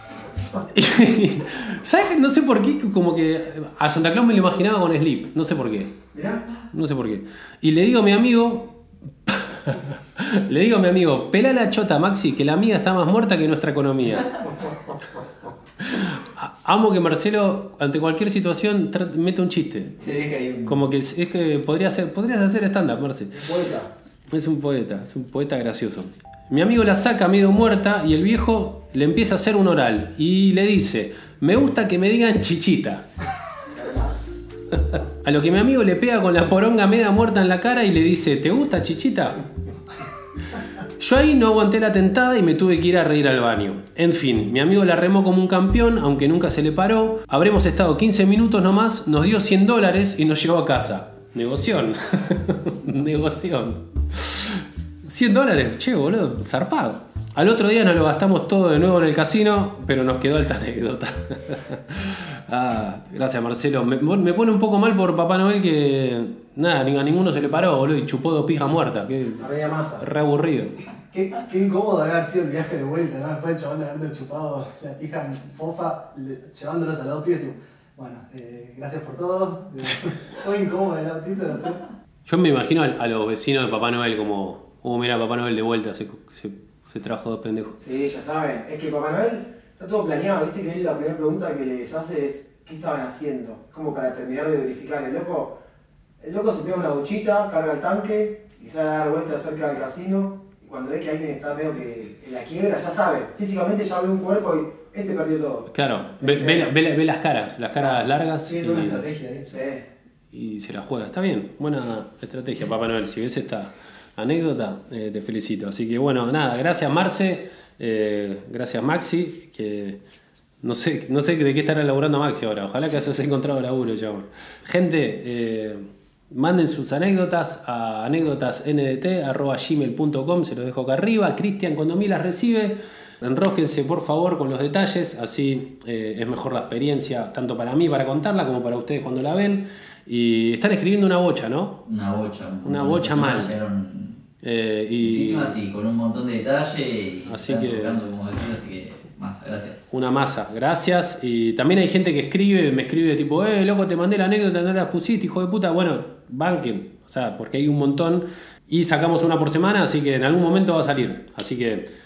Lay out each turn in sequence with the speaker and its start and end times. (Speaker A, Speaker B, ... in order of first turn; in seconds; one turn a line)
Speaker A: 0.7-6.0
Speaker B: 6.1-6.4
Speaker A: 6.7-14.3
Speaker A: 15.8-20.0
Speaker C: 20.0-20.7
Speaker A: 20.7-23.5
Speaker B: 23.4-23.9
Speaker A: 24.3-33.0
Speaker A: 34.7-39.4
Speaker A: 41.0-69.5
Speaker B: 69.4-70.1
Speaker A: 70.0-70.8
Speaker D: 71.1-81.8
Speaker A: 82.2-87.8
Speaker B: 87.8-95.5
Speaker B: 96.2-105.7
Speaker A: 105.7-109.1
Speaker B: 106.2-106.7
Speaker D: 107.8-109.5
Speaker B: 109.5-109.8
Speaker A: 110.3-120.0
Speaker A: 120.6-141.8
Speaker C: 141.8-144.2
Speaker A: 142.6-143.6
Speaker A: 144.4-145.6
Speaker C: 145.0-149.9
Speaker A: 147.2-148.1
Speaker A: 149.9-161.9